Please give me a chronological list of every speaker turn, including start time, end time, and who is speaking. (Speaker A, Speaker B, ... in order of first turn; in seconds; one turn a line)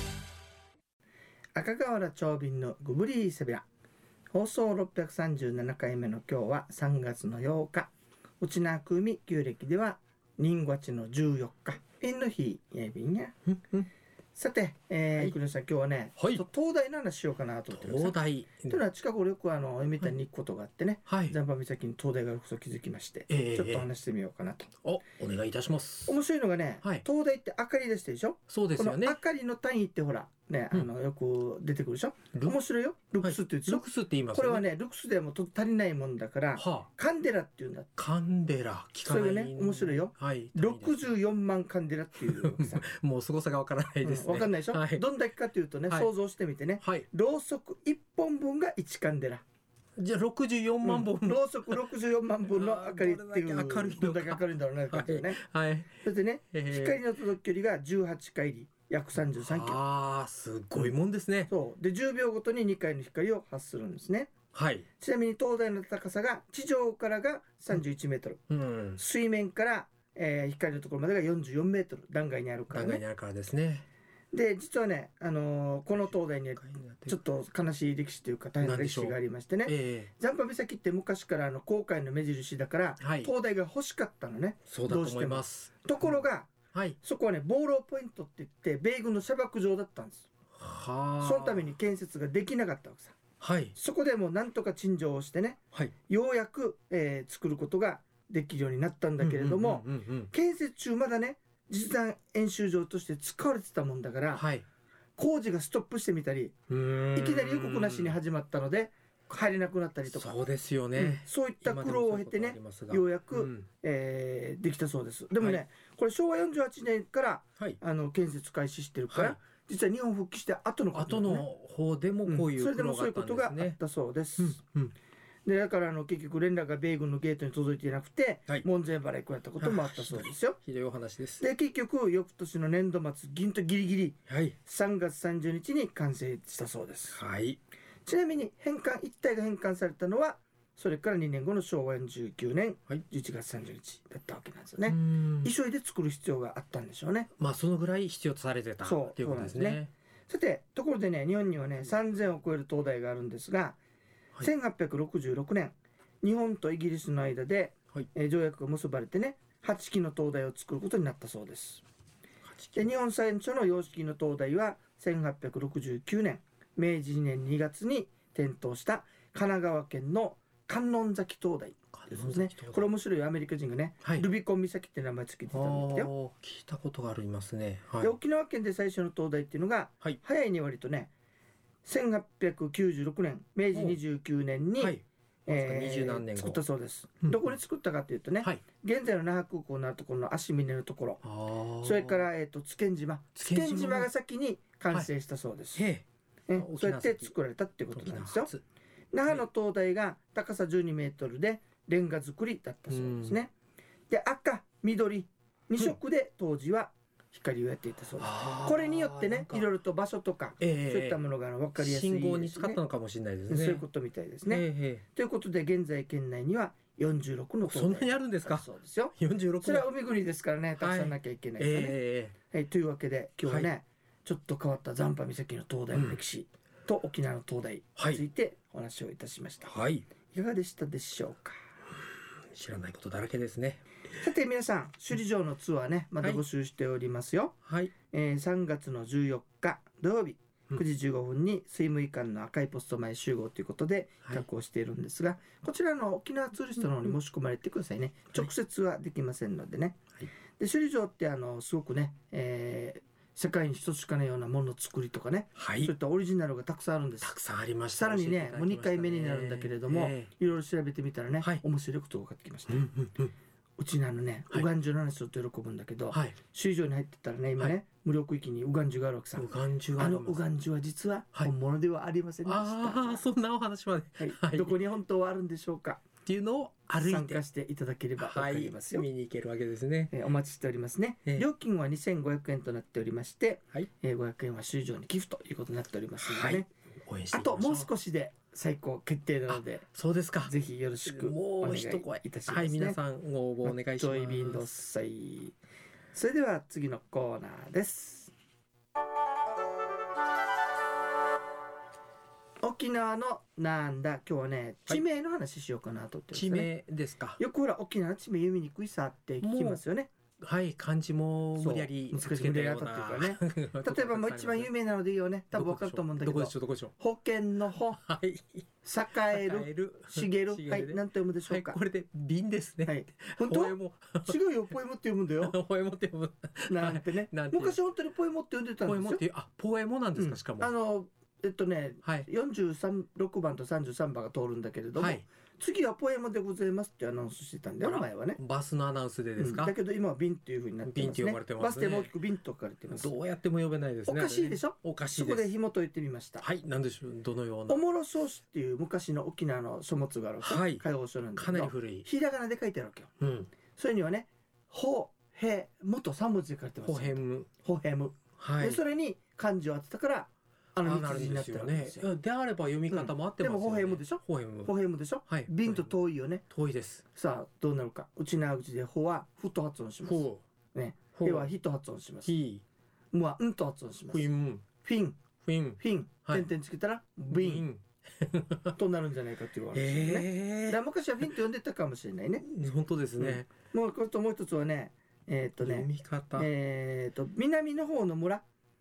Speaker A: 1.5-3.6
Speaker A: 4.3-13.3
Speaker B: 13.4-13.9
Speaker A: 14.3-24.7
Speaker B: 16.2-16.4
Speaker B: 17.7-18.8
Speaker B: 21.1-21.4
Speaker B: 23.3-23.9
Speaker B: 24.8-26.2
Speaker A: 26.1-37.9
Speaker B: 28.5-29.2
Speaker B: 33.2-34.6
Speaker B: 36.5-36.9
Speaker B: 38.0-41.1
Speaker A: 39.0-42.8
Speaker B: 42.2-45.0
Speaker A: 44.0-49.4
Speaker B: 50.0-51.8
Speaker A: 50.8-55.4
Speaker B: 52.5-56.0
Speaker A: 56.0-59.8
Speaker B: 56.5-57.0
Speaker B: 59.2-61.5
Speaker A: 61.5-64.3
Speaker B: 64.5-64.8
Speaker A: 65.0-68.4
Speaker B: 68.5-69.0
Speaker A: 69.0-73.0
Speaker B: 72.7-73.8
Speaker A: 74.3-90.3
Speaker B: 76.5-77.2
Speaker B: 78.6-80.1
Speaker B: 83.0-83.3
Speaker B: 84.7-86.2
Speaker B: 90.5-91.7
Speaker A: 91.2-93.2
Speaker B: 93.4-93.7
Speaker A: 93.7-104.5
Speaker B: 99.2-100.3
Speaker B: 104.3-104.6
Speaker A: 105.2-106.5
Speaker B: 106.7-108.2
Speaker A: 107.1-110.4
Speaker B: 110.0-113.7
Speaker A: 111.0-121.5
Speaker B: 119.1-119.4
Speaker B: 120.9-123.8
Speaker A: 122.2-124.6
Speaker B: 124.4-124.9
Speaker A: 125.4-130.6
Speaker B: 129.6-131.4
Speaker A: 131.4-137.2
Speaker B: 134.3-134.5
Speaker B: 137.1-137.6
Speaker A: 138.0-147.3
Speaker B: 144.8-145.5
Speaker B: 147.4-149.9
Speaker A: 148.8-153.8
Speaker A: 154.4-161.8
Speaker B: 162.4-162.9
Speaker A: 162.7-176.1
Speaker B: 171.9-172.9
Speaker B: 175.5-178.1
Speaker A: 178.0-181.1
Speaker A: 181.8-191.2
Speaker B: 183.7-184.0
Speaker B: 184.8-186.6
Speaker B: 191.2-192.3
Speaker A: 191.8-195.9
Speaker B: 193.3-194.1
Speaker B: 195.8-197.3
Speaker A: 196.5-198.5
Speaker B: 197.9-198.6
Speaker A: 199.1-203.5
Speaker B: 202.9-203.4
Speaker A: 204.1-212.8
Speaker B: 208.2-209.7
Speaker B: 210.6-211.2
Speaker B: 211.8-213.8
Speaker A: 213.5-222.0
Speaker B: 214.5-215.0
Speaker B: 217.6-219.9
Speaker B: 220.8-222.3
Speaker A: 222.5-229.7
Speaker B: 225.9-226.2
Speaker B: 227.9-228.2
Speaker B: 229.6-230.1
Speaker A: 230.3-231.6
Speaker B: 232.5-233.8
Speaker A: 234.1-237.6
Speaker B: 237.7-237.9
Speaker A: 238.1-250.0
Speaker A: 250.6-257.3
Speaker B: 255.6-255.9
Speaker B: 257.2-260.3
Speaker A: 257.9-262.9
Speaker B: 262.7-263.3
Speaker A: 263.8-273.3
Speaker B: 266.1-266.4
Speaker B: 269.4-270.4
Speaker B: 272.4-274.8
Speaker A: 274.2-276.0
Speaker B: 276.2-277.4
Speaker A: 277.0-279.1
Speaker B: 278.2-280.1
Speaker A: 280.1-286.7
Speaker B: 286.2-287.9
Speaker A: 287.3-289.9
Speaker B: 289.5-290.5
Speaker A: 290.4-293.0
Speaker B: 291.1-294.7
Speaker A: 293.6-295.6
Speaker A: 296.1-298.3
Speaker A: 302.6-306.7
Speaker B: 306.3-307.4
Speaker A: 307.4-310.1
Speaker B: 309.4-309.8
Speaker B: 310.4-314.7
Speaker A: 311.6-318.0
Speaker B: 315.5-316.9
Speaker B: 318.0-318.6
Speaker A: 318.8-321.8
Speaker B: 319.3-324.4
Speaker A: 322.8-325.6
Speaker B: 325.4-327.8
Speaker A: 326.7-329.2
Speaker B: 328.8-330.7
Speaker A: 330.1-338.4
Speaker B: 335.0-335.2
Speaker B: 337.8-339.7
Speaker A: 339.4-343.1
Speaker B: 340.8-342.1
Speaker B: 342.9-345.5
Speaker A: 344.1-346.4
Speaker B: 346.4-347.8
Speaker A: 347.7-353.1
Speaker B: 350.4-350.8
Speaker B: 351.4-352.1
Speaker B: 353.2-353.5
Speaker A: 353.7-362.1
Speaker B: 356.8-357.5
Speaker B: 358.4-358.8
Speaker B: 360.8-364.7
Speaker A: 362.9-366.4
Speaker B: 365.3-365.9
Speaker B: 366.5-367.0
Speaker A: 367.1-372.3
Speaker B: 370.0-370.4
Speaker B: 371.1-371.5
Speaker B: 372.2-372.6
Speaker A: 373.1-374.3
Speaker B: 374.1-374.6
Speaker A: 374.8-375.2
Speaker B: 375.4-376.5
Speaker A: 375.8-377.7
Speaker B: 377.3-378.8
Speaker A: 378.7-382.5
Speaker B: 379.7-380.8
Speaker B: 382.4-383.5
Speaker A: 383.2-388.4
Speaker B: 385.6-386.5